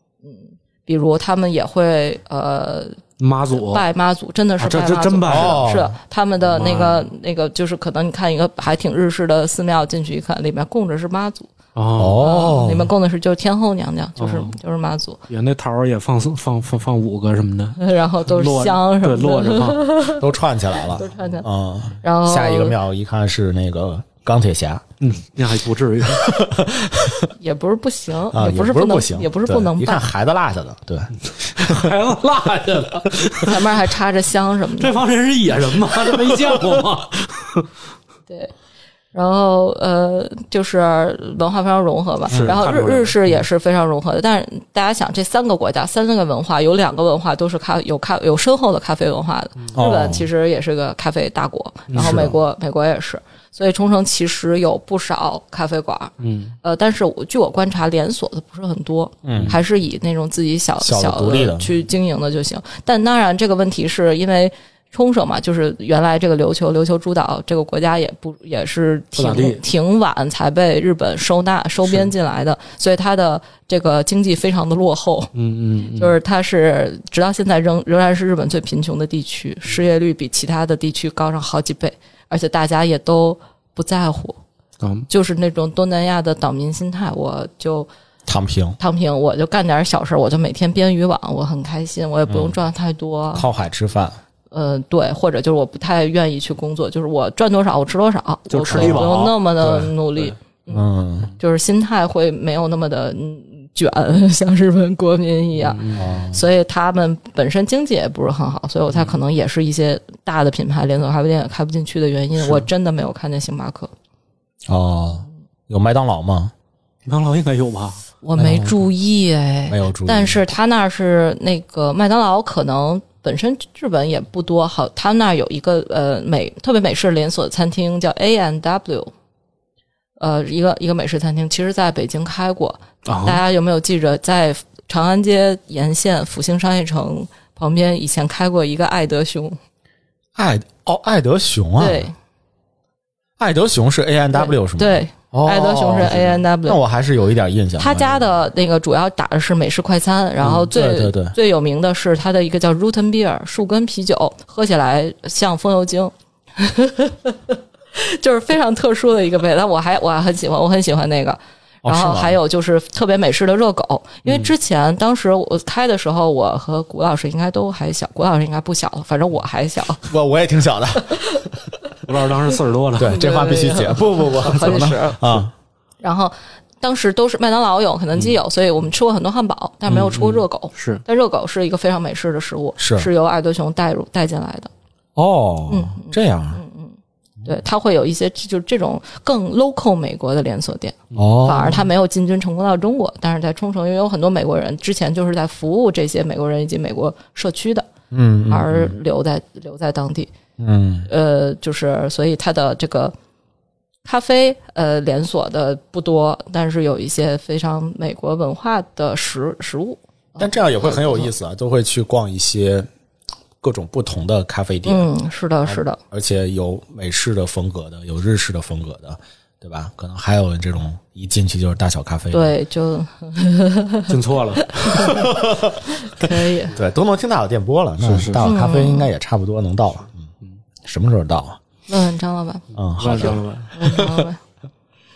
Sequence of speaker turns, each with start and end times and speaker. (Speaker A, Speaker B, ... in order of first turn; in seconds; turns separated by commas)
Speaker A: 0.2-3.0, Speaker B: 3.2-3.8, Speaker A: 3.5-11.5, Speaker B: 4.6-5.6, Speaker C: 5.3-5.9, Speaker B: 6.4-7.1, Speaker B: 11.7-12.2, Speaker C: 11.9-12.9, Speaker A: 12.1-15.2, Speaker B: 14.2-14.6, Speaker B: 15.3-19.9, Speaker A: 17.8-20.2, Speaker C: 20.1-24.8, Speaker A: 20.9-21.5, Speaker A: 22.0-22.8, Speaker B: 25.0-26.4, Speaker C: 26.1-27.3, Speaker A: 27.4-30.1, Speaker C: 28.3-31.9, Speaker B: 31.5-33.7, Speaker A: 33.4-35.0, Speaker B: 34.8-37.7, Speaker A: 39.1-75.3, Speaker C: 42.3-42.6, Speaker B: 42.3-43.4, Speaker C: 49.7-50.3, Speaker B: 51.9-52.2, Speaker C: 51.9-52.4, Speaker B: 56.2-56.5, Speaker C: 59.2-59.6, Speaker C: 60.8-61.7, Speaker B: 69.2-69.6, Speaker B: 75.3-76.2, Speaker A: 75.9-84.4, Speaker B: 84.8-85.1, Speaker A: 85.1-87.9, Speaker C: 88.3-88.8, Speaker A: 88.8-93.5, Speaker C: 93.3-94.2, Speaker A: 94.5-100.8, Speaker B: 98.5-100.3, Speaker C: 98.7-99.1, Speaker C: 100.7-101.3, Speaker A: 101.4-113.9, Speaker B: 105.6-106.1, Speaker C: 105.9-106.4, Speaker C: 114.7-116.5, Speaker B: 117.0-118.0, Speaker A: 118.2-129.1, Speaker C: 118.3-118.8, Speaker C: 119.7-120.4, Speaker A: 130.2-139.6, Speaker B: 133.1-133.4, Speaker C: 140.3-142.1, Speaker A: 141.8-142.1, Speaker C: 143.4-148.2, Speaker A: 144.3-146.8, Speaker A: 147.8-170.1, Speaker C: 150.4-151.3, Speaker C: 161.8-162.4, Speaker C: 170.0-171.5, Speaker A: 171.1-171.4, Speaker B: 172.0-173.2, Speaker C: 173.0-175.5, Speaker A: 173.0-175.4, Speaker A: 176.0-184.7, Speaker B: 179.9-181.0, Speaker C: 182.8-183.1, Speaker C: 185.2-186.6, Speaker A: 185.7-197.9, Speaker C: 191.1-191.8, Speaker C: 198.1-198.9, Speaker A: 198.5-200.3, Speaker C: 200.6-201.1, Speaker A: 201.1-203.1, Speaker A: 204.0-211.3, Speaker C: 210.4-212.9, Speaker C: 213.6-215.1, Speaker A: 214.8-216.0, Speaker C: 215.7-222.5, Speaker A: 222.3-225.3, Speaker B: 224.1-225.1, Speaker C: 225.0-230.3, Speaker A: 225.9-226.7, Speaker B: 228.0-228.4, Speaker A: 228.4-229.1, Speaker C: 230.8-231.6, Speaker A: 231.9-232.6, Speaker C: 232.7-234.0, Speaker B: 233.0-233.8, Speaker A: 233.2-234.4